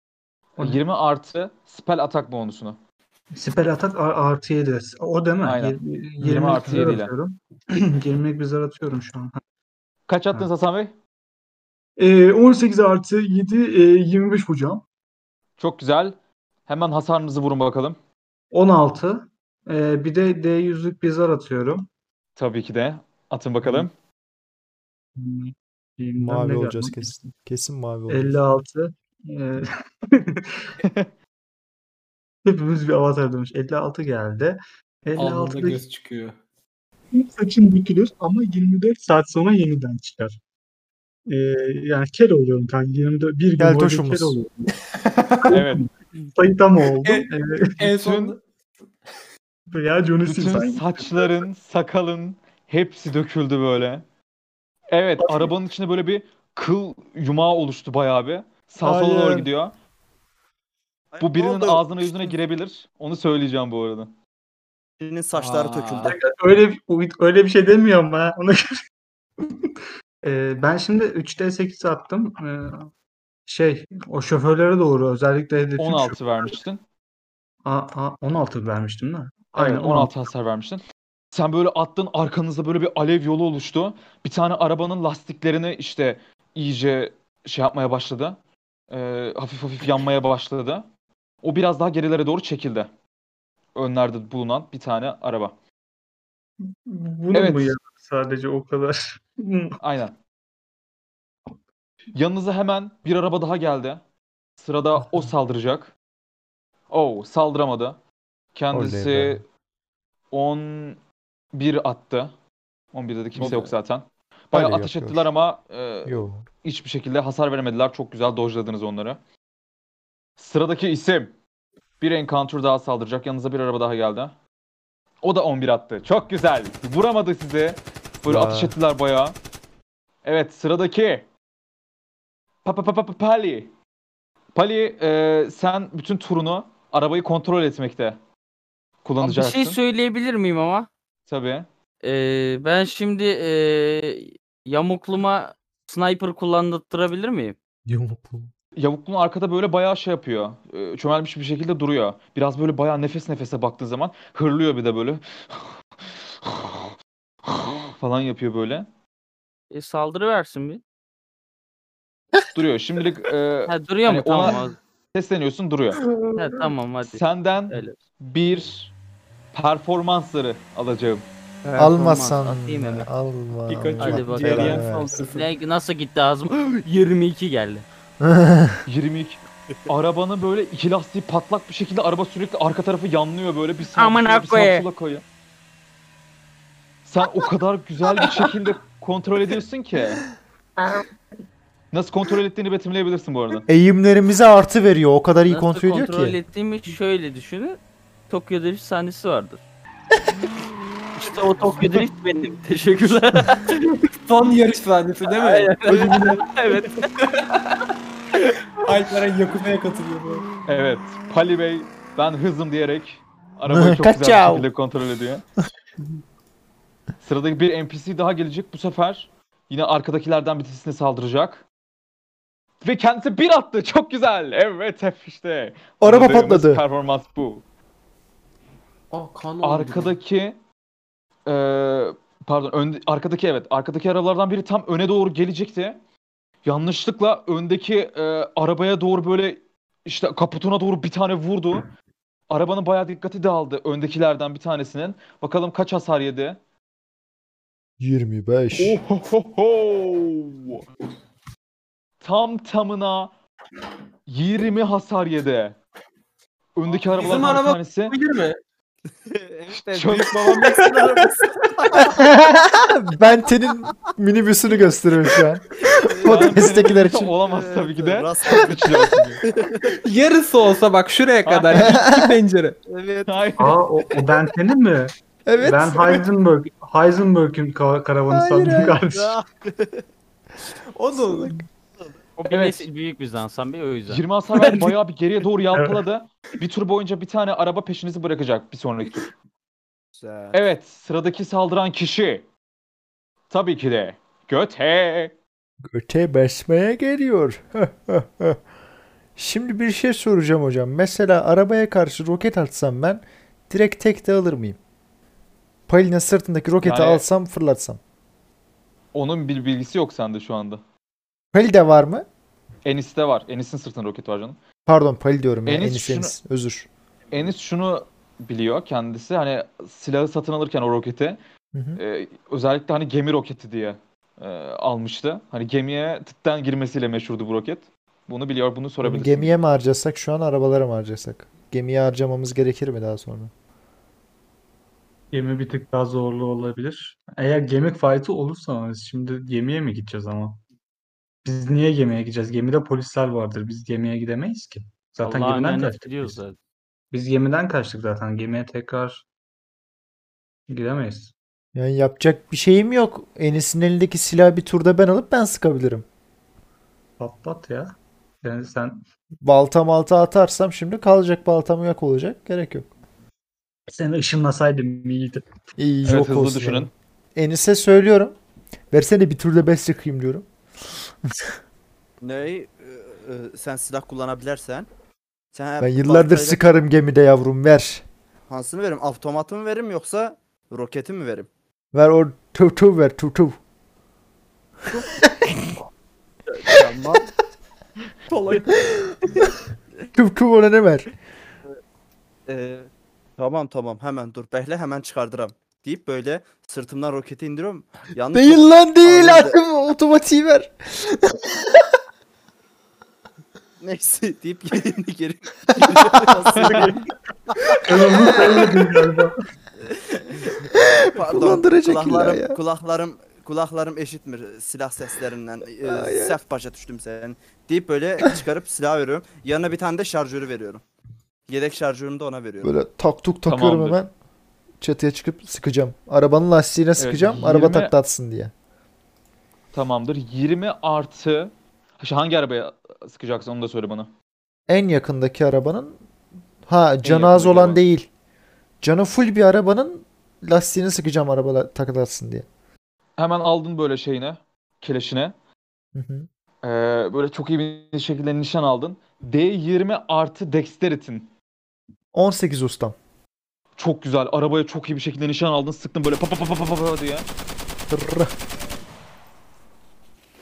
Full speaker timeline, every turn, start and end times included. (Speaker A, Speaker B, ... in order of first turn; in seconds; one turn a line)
Speaker A: 0.6-2.8
Speaker B: 3.4-9.4
Speaker A: 5.4-7.1
Speaker A: 10.1-10.9
Speaker B: 12.0-14.8
Speaker A: 15.6-18.0
Speaker B: 18.5-21.9
Speaker A: 22.4-23.9
Speaker B: 25.2-27.3
Speaker C: 26.2-28.4
Speaker B: 28.1-30.6
Speaker A: 30.8-31.1
Speaker B: 32.5-35.8
Speaker D: 35.2-36.4
Speaker B: 37.1-40.4
Speaker B: 41.3-44.7
Speaker C: 43.6-44.4
Speaker D: 45.1-45.5
Speaker A: 45.5-45.8
Speaker B: 45.5-47.8
Speaker D: 47.0-48.4
Speaker A: 47.8-48.4
Speaker B: 49.7-51.3
Speaker A: 50.2-54.0
Speaker A: 54.9-59.7
Speaker B: 55.2-55.5
Speaker C: 58.8-59.5
Speaker E: 61.1-62.3
Speaker A: 61.2-64.1
Speaker E: 65.0-66.2
Speaker F: 65.4-66.1
Speaker B: 66.1-68.7
Speaker B: 69.4-69.7
Speaker B: 70.2-72.9
Speaker B: 73.5-76.5
Speaker A: 75.8-76.8
Speaker B: 77.7-80.1
Speaker A: 79.6-88.4
Speaker A: 88.9-90.9
Speaker A: 91.4-92.9
Speaker A: 93.8-95.5
Speaker B: 96.8-99.8
Speaker A: 97.3-97.8
Speaker A: 99.8-100.2
Speaker A: 102.2-104.0
Speaker A: 104.6-105.9
Speaker B: 105.0-105.3
Speaker A: 106.9-108.0
Speaker A: 108.5-109.4
Speaker C: 108.7-109.4
Speaker A: 110.3-111.0
Speaker A: 111.5-112.3
Speaker A: 112.9-119.2
Speaker C: 114.5-115.3
Speaker C: 116.1-116.5
Speaker A: 120.4-121.3
Speaker A: 122.0-124.3
Speaker A: 125.2-129.4
Speaker C: 128.2-128.8
Speaker A: 130.2-131.3
Speaker A: 132.6-133.7
Speaker A: 134.5-138.2
Speaker A: 139.0-139.8
Speaker F: 139.2-140.9
Speaker A: 141.3-141.7
Speaker F: 142.0-147.6
Speaker C: 147.9-148.5
Speaker A: 148.8-156.9
Speaker A: 157.5-158.9
Speaker F: 159.7-160.8
Speaker A: 162.5-164.6
Speaker F: 163.7-164.8
Speaker A: 165.1-166.0
Speaker F: 166.4-168.0
Speaker A: 167.1-168.9
Speaker A: 169.5-171.2
Speaker F: 171.7-173.1
Speaker C: 171.8-175.2
Speaker D: 173.7-175.5
Speaker F: 174.0-177.9
Speaker C: 178.2-178.8
Speaker A: 178.9-185.2
Speaker F: 183.9-184.9
Speaker A: 187.1-190.2
Speaker A: 191.9-193.6
Speaker C: 193.7-196.4
Speaker F: 195.5-199.6
Speaker F: 201.2-204.0
Speaker D: 204.3-206.4
Speaker F: 205.4-207.1
Speaker D: 208.8-210.5
Speaker A: 210.7-215.4
Speaker C: 213.7-214.7
Speaker A: 217.2-221.7
Speaker A: 222.8-227.7
Speaker C: 226.0-226.8
Speaker D: 229.1-230.1
Speaker A: 229.6-230.6
Speaker A: 231.5-236.0
Speaker A: 236.7-241.9
Speaker A: 242.5-246.6
Speaker C: 248.0-249.0
Speaker A: 248.8-250.8
Speaker A: 252.2-253.3
Speaker A: 254.3-255.8
Speaker A: 256.8-258.1
Speaker D: 257.2-258.6
Speaker E: 259.2-262.2
Speaker A: 259.7-260.8
Speaker C: 262.0-267.3
Speaker E: 265.9-266.7
Speaker A: 266.2-269.4
Speaker E: 267.4-270.0
Speaker D: 270.0-272.8
Speaker A: 271.4-271.9
Speaker C: 271.8-272.3
Speaker E: 272.9-273.4
Speaker A: 273.3-273.8
Speaker B: 273.6-279.4
Speaker C: 275.5-276.3
Speaker C: 278.3-279.0
Speaker E: 279.1-280.1
Speaker D: 281.1-281.5
Speaker C: 281.1-281.6
Speaker F: 282.4-284.2
Speaker A: 282.5-282.9
Speaker A: 284.1-289.3
Speaker B: 285.7-286.0
Speaker E: 290.1-290.6
Speaker A: 290.5-292.5
Speaker A: 293.5-295.3
Speaker C: 295.9-298.6
Speaker C: 299.4-304.8
Speaker C: 305.9-308.0
Speaker A: 306.8-307.3
Speaker A: 309.1-310.8
Speaker C: 311.5-312.3
Speaker A: 312.9-314.6
Speaker C: 314.9-316.9
Speaker A: 315.7-316.4
Speaker A: 317.3-321.4
Speaker C: 321.7-322.0
Speaker A: 322.0-329.6
Speaker C: 329.0-333.5
Speaker B: 335.3-340.6
Speaker B: 341.4-346.4
Speaker F: 345.2-346.6
Speaker B: 347.1-349.2
Speaker B: 350.7-351.3
Speaker C: 351.8-356.1
Speaker B: 357.2-359.1
Speaker C: 359.4-362.9
Speaker B: 363.9-365.4
Speaker C: 365.8-368.4
Speaker A: 366.1-366.9
Speaker C: 368.9-370.5
Speaker E: 372.2-374.9
Speaker E: 375.5-376.7
Speaker C: 375.8-378.1
Speaker E: 378.5-381.5
Speaker C: 381.9-383.6
Speaker C: 385.3-385.7
Speaker E: 386.5-387.3
Speaker E: 388.3-388.7
Speaker C: 388.9-389.4
Speaker C: 390.1-391.1
Speaker E: 392.5-399.6
Speaker C: 398.3-401.9
Speaker E: 403.8-408.6
Speaker C: 405.9-406.8
Speaker B: 406.6-407.1
Speaker B: 407.8-409.4
Speaker C: 408.3-408.7
Speaker E: 409.8-410.6
Speaker C: 410.7-412.6
Speaker E: 411.1-420.8
Speaker C: 415.8-416.4
Speaker E: 421.5-422.7
Speaker C: 422.6-424.1
Speaker A: 423.5-424.0
Speaker C: 424.8-428.5
Speaker A: 427.0-427.9
Speaker A: 429.7-434.1
Speaker C: 434.7-436.0
Speaker C: 436.7-438.1
Speaker A: 437.0-437.8
Speaker C: 438.8-442.5
Speaker A: 443.2-445.4
Speaker C: 445.9-446.3
Speaker A: 446.6-451.3
Speaker C: 452.1-453.0
Speaker A: 453.8-457.3
Speaker C: 457.9-458.3